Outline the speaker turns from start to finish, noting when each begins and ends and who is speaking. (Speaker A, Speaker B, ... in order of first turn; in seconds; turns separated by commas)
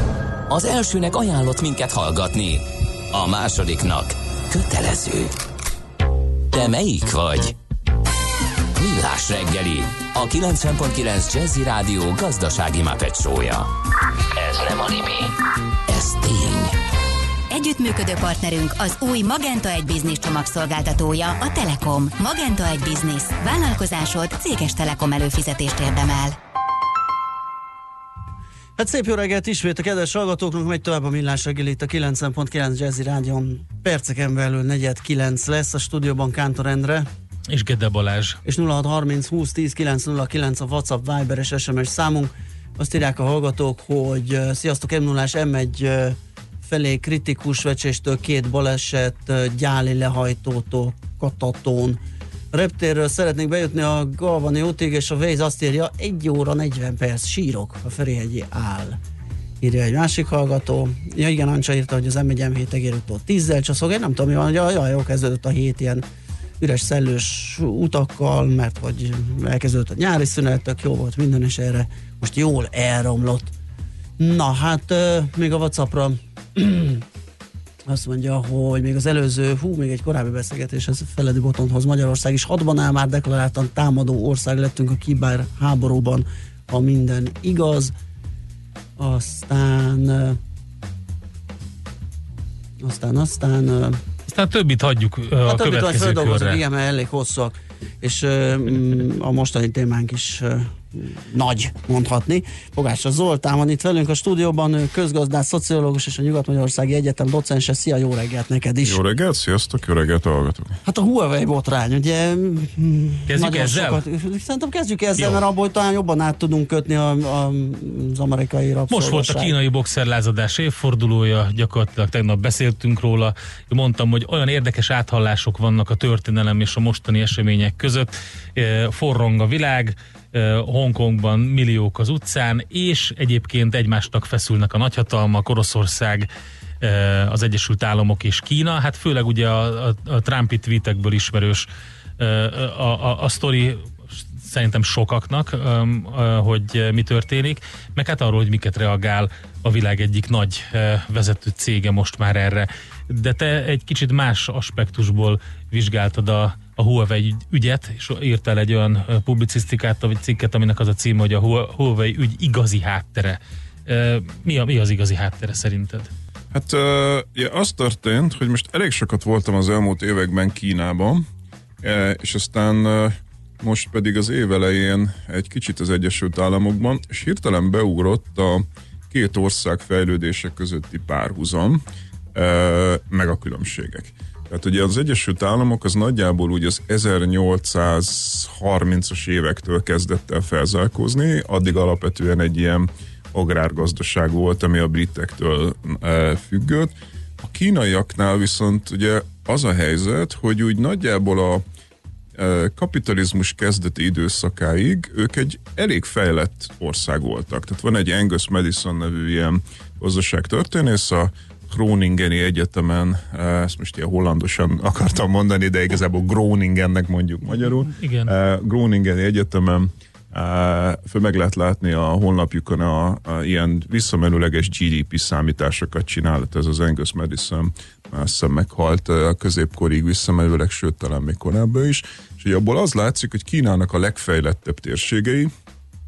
Speaker A: 0.5-5.3, Speaker A: 6.5-7.5, Speaker A: 8.7-13.7, Speaker A: 14.3-15.3, Speaker A: 15.9-16.8, Speaker B: 17.5-26.4, Speaker C: 28.8-37.1, Speaker D: 37.5-38.4, Speaker C: 38.5-52.0, Speaker C: 52.5-59.0, Speaker C: 59.6-66.0, Speaker C: 66.6-73.5, Speaker C: 74.2-77.0, Speaker C: 77.9-87.9, Speaker C: 89.0-90.4, Speaker C: 92.8-94.0, Speaker D: 94.3-96.6, Speaker C: 95.4-109.0, Speaker E: 108.8-110.8, Speaker C: 110.8-119.5, Speaker D: 113.3-114.0, Speaker D: 118.9-136.3, Speaker D: 136.8-141.7, Speaker D: 142.2-166.1, Speaker E: 166.5-171.2, Speaker E: 171.8-181.8, Speaker E: 182.3-201.6, Speaker E: 202.4-235.5, Speaker D: 217.7-218.3